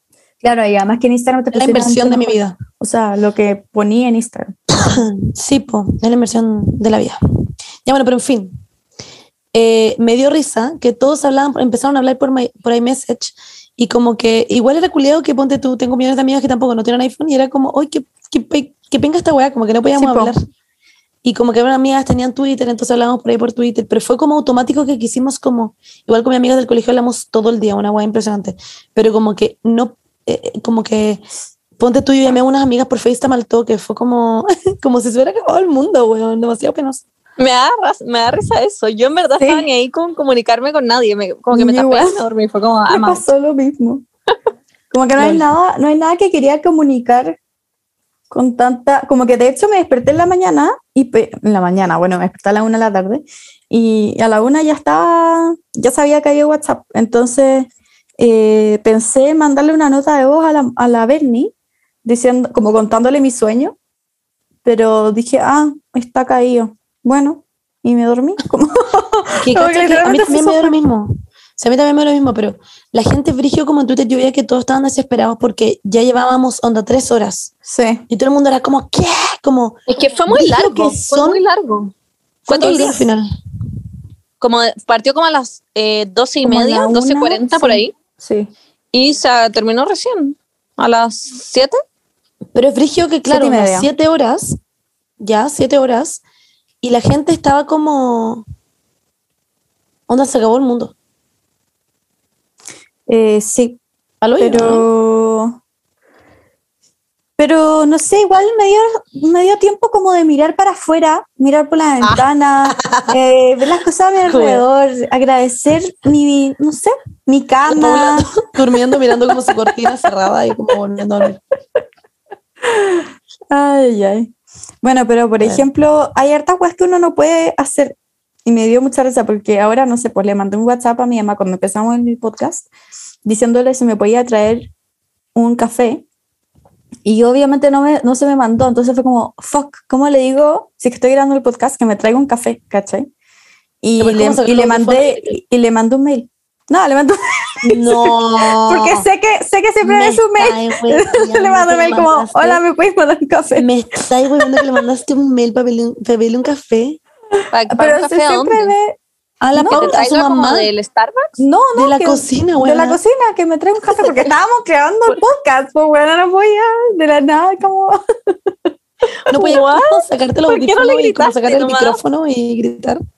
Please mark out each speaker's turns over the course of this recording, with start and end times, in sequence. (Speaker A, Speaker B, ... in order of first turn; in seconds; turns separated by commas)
Speaker A: 0.4-4.8, Speaker B: 1.5-2.5, Speaker B: 4.8-7.2, Speaker B: 7.8-8.5, Speaker B: 9.5-20.4, Speaker A: 20.0-20.3, Speaker B: 21.2-31.2, Speaker B: 31.8-37.0, Speaker C: 37.4-43.2, Speaker A: 39.4-39.7, Speaker A: 41.5-42.2, Speaker A: 42.9-44.0, Speaker A: 44.9-47.4, Speaker B: 45.2-45.5, Speaker A: 48.3-61.5, Speaker A: 62.0-63.7, Speaker A: 64.6-70.7, Speaker B: 69.4-77.5, Speaker A: 77.7-78.0, Speaker B: 78.1-79.8, Speaker C: 79.9-81.9, Speaker B: 80.3-81.4, Speaker A: 82.5-83.0, Speaker B: 82.5-83.3, Speaker C: 84.4-87.9, Speaker A: 86.4-88.5, Speaker C: 88.9-91.8, Speaker B: 92.5-94.6, Speaker A: 93.3-93.9, Speaker B: 95.2-96.2, Speaker B: 96.8-98.4, Speaker B: 100.1-100.9, Speaker A: 103.1-103.8, Speaker B: 104.2-104.8, Speaker A: 104.4-105.6, Speaker A: 107.4-119.7, Speaker B: 112.8-113.1, Speaker B: 114.2-114.6, Speaker B: 117.7-121.4, Speaker A: 122.7-127.9, Speaker B: 125.4-125.7, Speaker A: 128.4-132.7, Speaker A: 133.2-134.7, Speaker A: 135.3-136.0, Speaker A: 137.0-143.1, Speaker A: 143.8-153.7, Speaker B: 144.0-145.4, Speaker B: 147.7-149.1, Speaker B: 149.8-152.6, Speaker B: 153.6-157.0, Speaker C: 157.5-158.7, Speaker A: 157.7-159.0, Speaker B: 159.4-160.7, Speaker A: 159.5-159.9, Speaker C: 159.7-161.3, Speaker A: 161.4-168.5, Speaker B: 161.7-163.0, Speaker B: 169.3-173.0, Speaker C: 169.3-172.0